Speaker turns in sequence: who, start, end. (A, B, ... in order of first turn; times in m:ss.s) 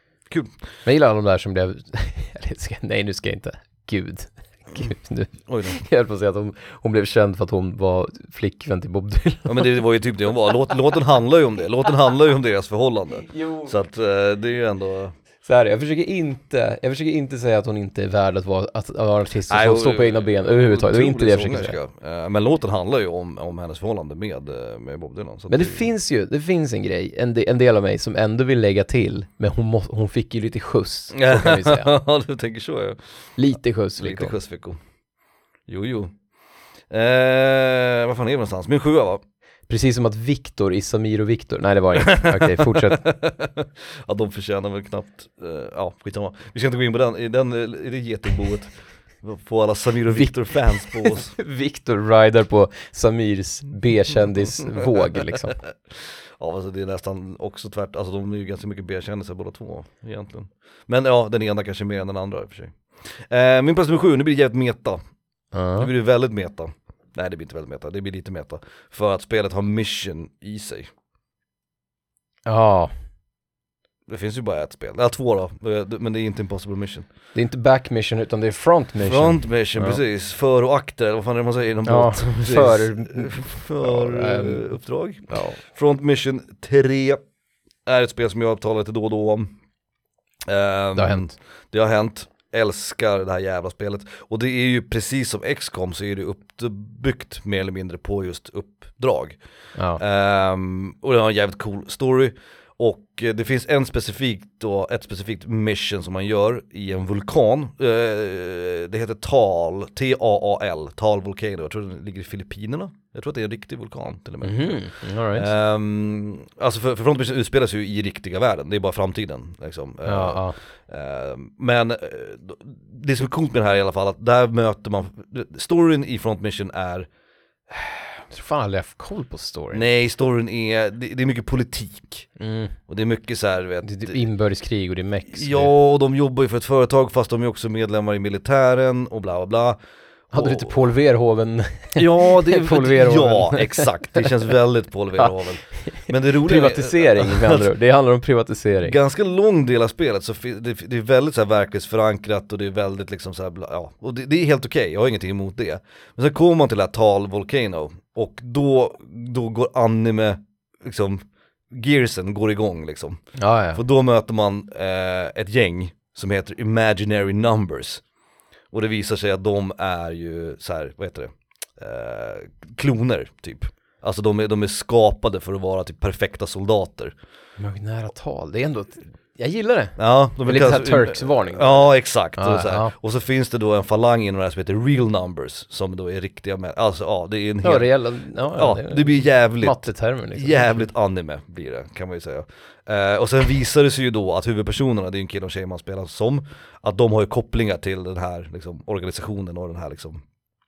0:00.3-0:00.6 A
0:00.8-0:09.8 B
0:05.5-0:05.8 A
0:09.4-0:15.1 A
0:13.3-0:13.7 B
0:15.4-0:21.8 B
0:19.5-0:25.9 A
0:25.5-0:31.9 B
0:31.1-0:33.0 A
0:33.4-0:34.4 B
0:33.6-0:34.8 A
0:35.7-0:36.2 A
0:36.9-0:39.2 A
0:39.7-0:43.0 B
0:42.0-0:51.4 A
0:50.1-0:55.6 B
0:55.5-1:05.0 A
1:05.5-1:05.9 B
1:05.8-1:10.9 A
1:12.4-1:12.9 B
1:14.1-1:17.1 A
1:17.3-1:20.0 B
1:19.0-1:27.2 A
1:21.9-1:24.7 B
1:25.3-1:25.6 B
1:27.9-1:29.5 A
1:30.4-1:39.4 A
1:31.0-1:31.3 B
1:39.7-1:40.0 B
1:40.0-1:54.8 A
1:54.4-1:55.5 B
1:55.3-2:07.1 A
2:00.0-2:00.6 B
2:08.3-2:09.8 B
2:09.7-2:12.3 A
2:12.4-2:12.8 B
2:12.9-2:14.2 A
2:13.8-2:15.7 B
2:15.3-2:19.8 A
2:20.3-2:20.8 A
2:20.3-2:24.4 B
2:22.0-2:27.7 A
2:25.1-2:29.0 B
2:28.8-2:43.2 A
2:43.4-2:43.8 B
2:43.7-2:48.0 A
2:48.7-2:57.1 A
2:57.6-3:02.9 B
3:00.0-3:07.9 A
3:07.6-3:10.9 B
3:08.5-3:20.2 A